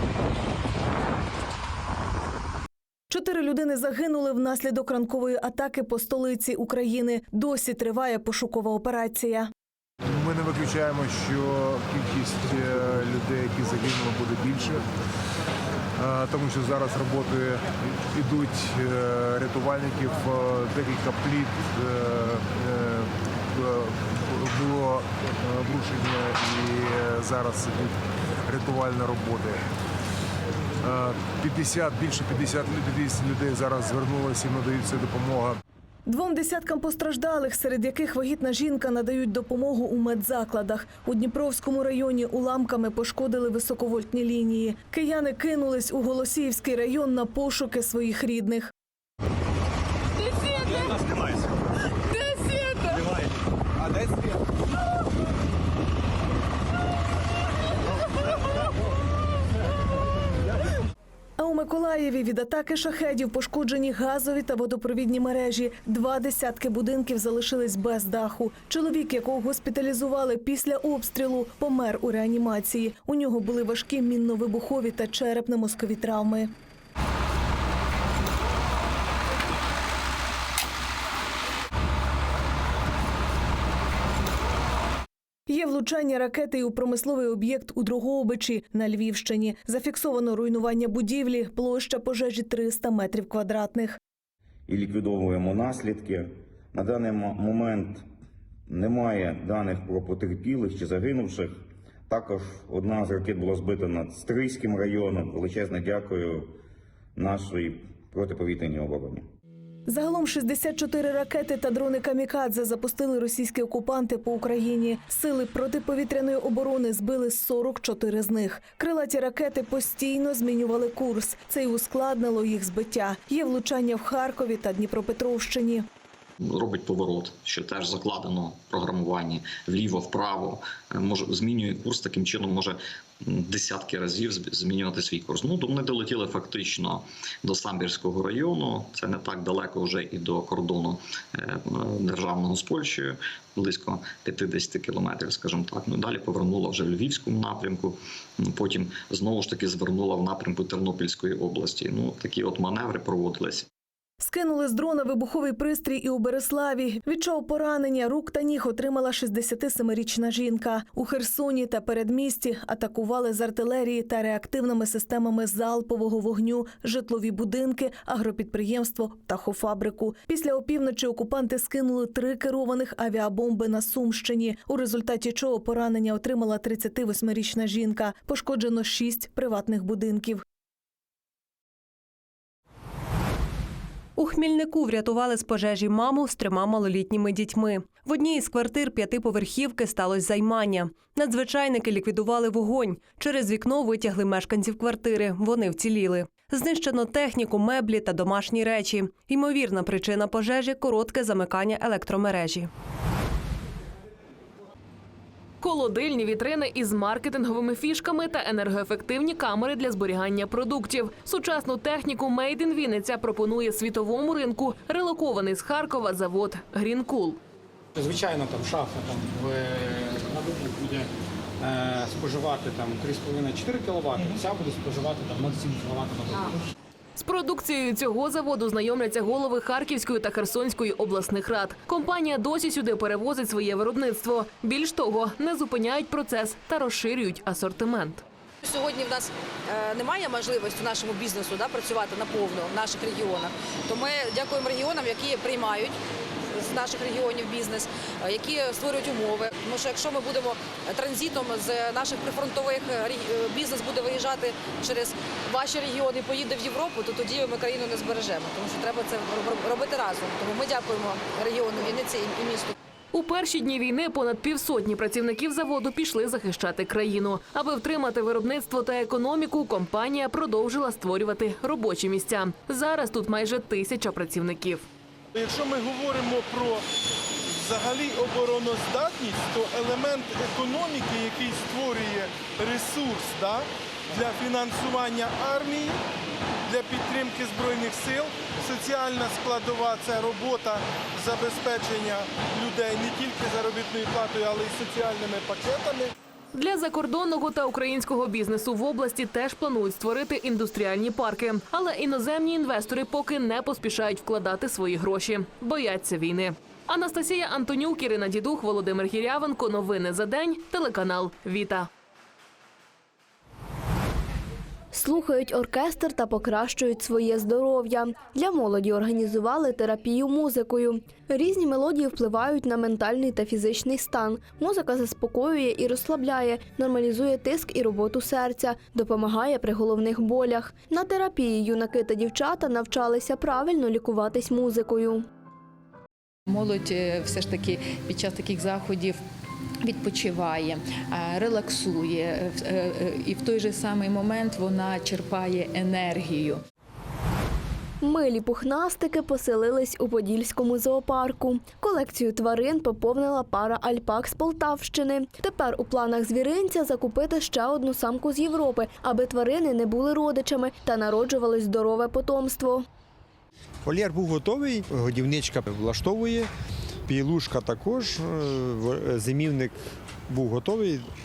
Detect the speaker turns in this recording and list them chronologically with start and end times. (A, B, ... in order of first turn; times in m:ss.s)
0:03.1-0:09.5 A
0:10.1-0:14.8 B
0:16.0-0:29.6 B
0:30.8-0:35.6 B
0:36.1-0:48.7 A
1:01.4-1:16.5 A
1:25.5-1:34.0 A
1:34.7-1:38.0 C
1:38.7-1:41.5 C
1:42.1-1:46.5 C
1:47.2-1:49.3 C
1:49.9-2:05.9 A
2:06.4-2:33.7 D
2:34.2-3:00.4 A
3:04.2-3:22.7 E
3:25.6-3:37.4 F
3:38.0-3:41.1 G
3:41.6-3:46.6 G
3:47.2-3:58.2 F
3:58.6-4:06.0 H
4:06.5-4:22.8 H
4:23.1-4:34.9 F
4:35.4-4:36.8 I
4:37.6-4:46.0 I
4:46.7-4:56.1 I
4:56.5-5:11.9 F
5:14.9-5:35.3 J
5:36.5-5:39.2 K
5:39.8-5:46.6 K
5:48.0-6:02.8 J
6:03.8-6:06.5 L
6:07.1-6:11.1 L